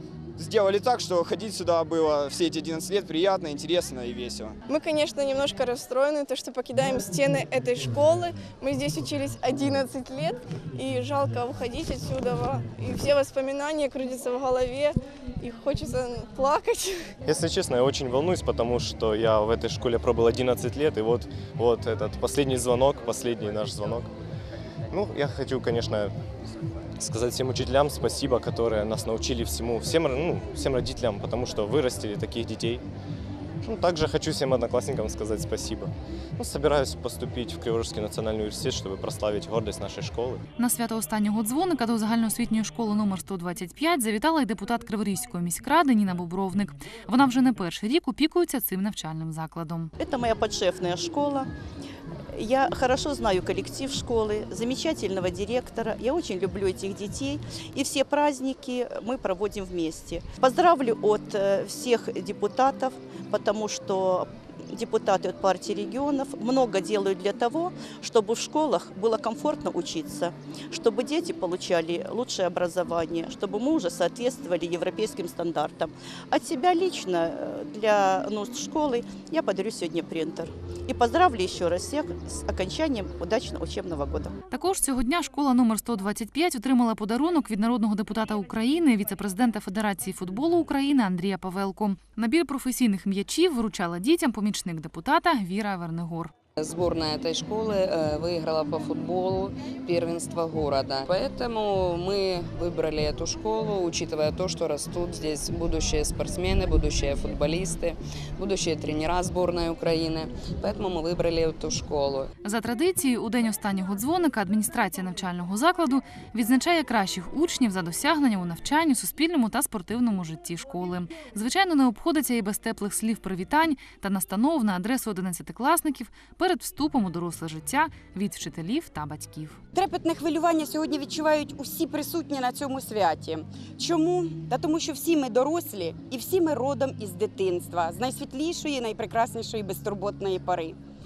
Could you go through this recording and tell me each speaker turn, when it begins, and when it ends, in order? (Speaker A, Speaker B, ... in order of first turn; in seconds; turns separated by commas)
Speaker A: 0.4-4.6, Speaker B: 4.7-16.9, Speaker C: 17.2-24.1, Speaker C: 24.9-26.1, Speaker C: 27.0-32.8, Speaker C: 33.6-40.4, Speaker D: 40.6-49.9, Speaker E: 50.0-51.5, Speaker E: 52.3-84.3, Speaker D: 84.5-96.3, Speaker F: 96.6-112.3, Speaker D: 112.4-129.6, Speaker G: 129.7-140.8